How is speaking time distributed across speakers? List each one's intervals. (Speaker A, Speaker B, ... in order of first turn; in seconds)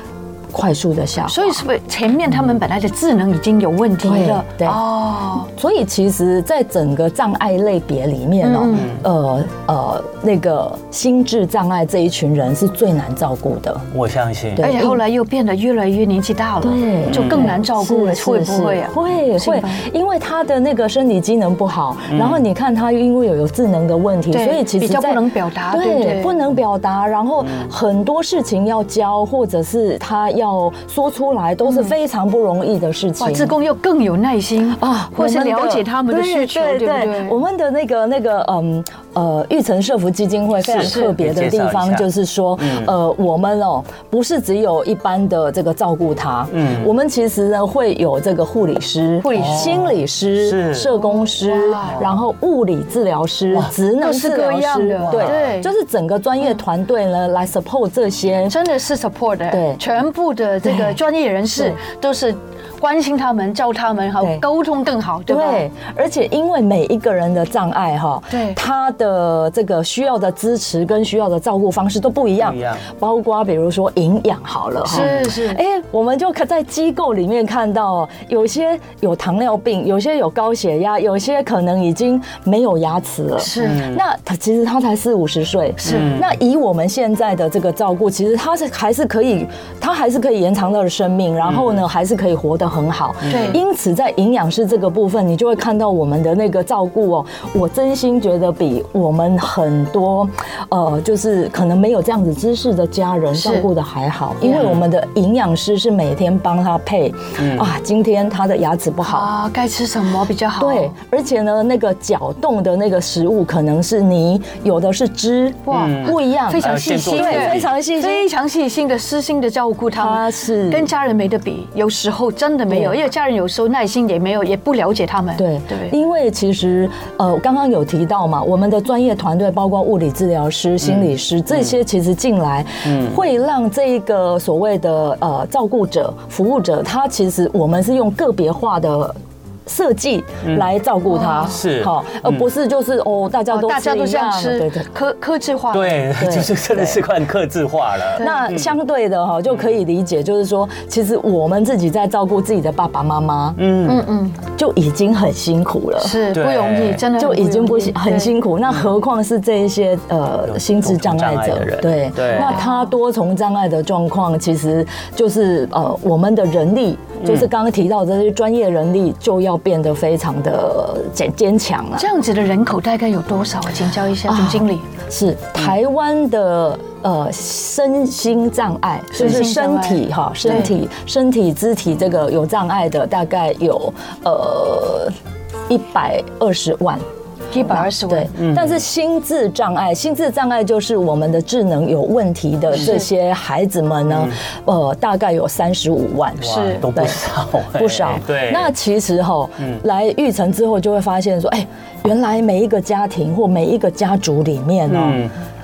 Speaker A: 0.5-1.6, 4.0-4.8, 5.5-13.9, 14.6-15.0, 16.6-33.5, 34.8-58.6, 59.5-59.8, 60.6-61.0, 65.3-109.3, 110.6-118.3, 119.9-120.9, 122.7-123.0, 125.4-144.9, 146.2-147.0, 148.2-153.6, 154.4-156.2, 157.2-172.1, 174.2-185.1, 185.7-187.1, 187.6-205.2
Speaker B: 1.3-5.5, 8.4-8.9, 14.6-19.9, 24.3-26.4, 31.6-31.9, 33.2-37.4, 40.7-41.2, 49.2-49.9, 51.0-52.0, 54.0-55.7, 58.5-65.7, 68.3-68.6, 74.9-75.6, 83.4-83.9, 85.8-86.1, 93.3-93.6, 103.3-103.7, 104.4-104.7, 109.0-110.9, 115.7-126.0, 141.1-141.5, 143.5-146.0, 153.8-154.4, 156.0-158.3, 162.3-162.9, 172.0-174.8, 179.1-180.7, 187.5-188.3, 192.7-193.1, 196.4-196.8
Speaker C: 8.7-9.0, 13.9-14.7, 17.1-17.6, 22.1-22.4, 27.4-27.7, 40.6-42.1, 42.6-42.9, 46.5-46.9, 49.4-50.9, 55.1-55.5, 72.4-72.8, 83.6-84.0, 85.8-86.3, 91.4-91.8, 93.3-93.6, 104.5-104.8, 107.4-107.7, 115.7-117.7, 130.8-131.7, 132.8-133.2, 140.4-140.7, 141.4-142.4, 145.7-148.7, 153.6-154.1, 156.3-157.1, 160.5-162.6, 167.2-167.5, 188.3-188.8, 194.1-194.4, 196.4-198.7, 204.9-205.3